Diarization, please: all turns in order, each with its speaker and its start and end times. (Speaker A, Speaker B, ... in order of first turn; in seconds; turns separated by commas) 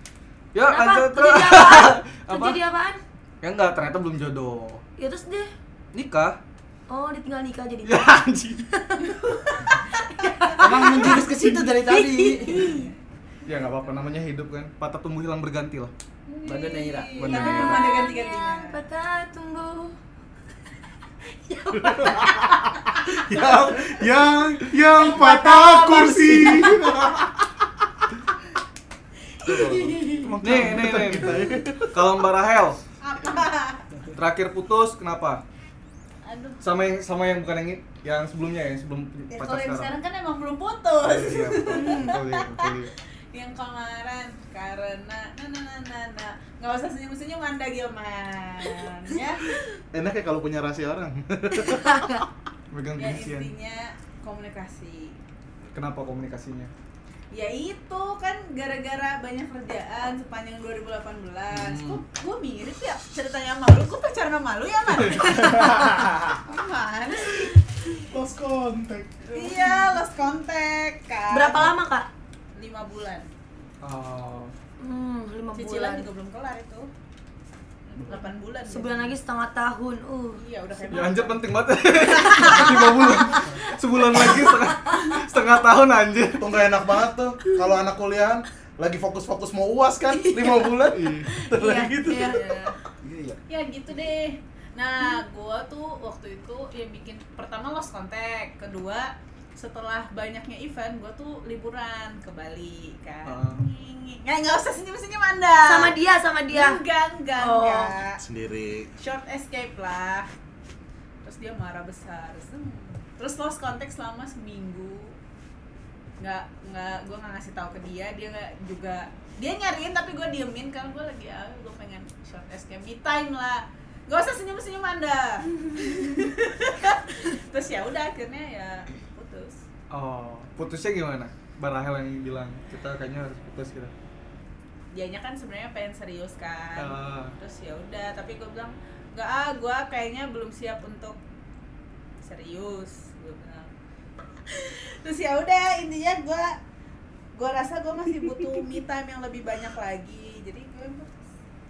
Speaker A: 0.5-2.6, Speaker B: 0.6-3.0, Speaker A: 3.4-4.8, Speaker B: 5.0-5.5, Speaker A: 5.9-6.4, Speaker B: 6.9-8.1, Speaker A: 7.8-8.7, Speaker B: 8.8-9.2, Speaker C: 9.3-9.6, Speaker B: 10.2-12.9, Speaker D: 10.6-12.7, Speaker C: 12.5-12.9, Speaker A: 13.4-15.9, Speaker C: 16.3-18.8, Speaker D: 16.4-17.3, Speaker A: 17.2-17.9, Speaker B: 17.2-19.9, Speaker B: 21.5-22.8, Speaker E: 21.7-27.7, Speaker B: 25.0-26.8, Speaker C: 25.1-26.1, Speaker B: 29.4-30.4, Speaker D: 29.5-29.9, Speaker E: 30.0-32.1, Speaker A: 30.4-32.8, Speaker C: 33.0-33.9, Speaker A: 34.1-35.4, Speaker C: 36.2-36.6, Speaker A: 36.6-40.0, Speaker C: 39.3-42.8, Speaker A: 41.0-42.9, Speaker B: 41.7-42.1, Speaker C: 43.3-49.6, Speaker E: 49.9-52.3, Speaker B: 51.7-52.2, Speaker A: 52.7-53.5, Speaker C: 53.0-55.2, Speaker A: 55.7-56.7, Speaker C: 57.3-67.6, Speaker A: 61.5-62.0, Speaker E: 68.0-69.8, Speaker C: 69.3-71.8, Speaker B: 71.3-72.1, Speaker C: 72.5-73.3, Speaker A: 73.8-74.5, Speaker B: 74.8-76.1, Speaker C: 75.5-76.9, Speaker C: 77.9-79.1, Speaker B: 78.7-80.4, Speaker C: 80.4-81.5, Speaker A: 80.9-86.5, Speaker C: 82.1-82.8, Speaker E: 86.4-92.6, Speaker B: 90.3-90.7, Speaker A: 90.9-91.3, Speaker B: 91.3-92.4, Speaker C: 92.2-92.8, Speaker D: 93.0-93.4, Speaker C: 93.5-106.0, Speaker A: 103.2-103.6, Speaker B: 105.7-106.8, Speaker C: 106.5-108.2, Speaker B: 107.4-108.0, Speaker E: 108.2-108.9, Speaker C: 109.0-110.3, Speaker C: 111.2-115.2, Speaker C: 116.2-129.6, Speaker A: 129.9-133.9, Speaker C: 134.9-141.2, Speaker A: 136.8-137.3, Speaker C: 142.2-143.7, Speaker C: 144.5-146.6, Speaker C: 147.3-151.2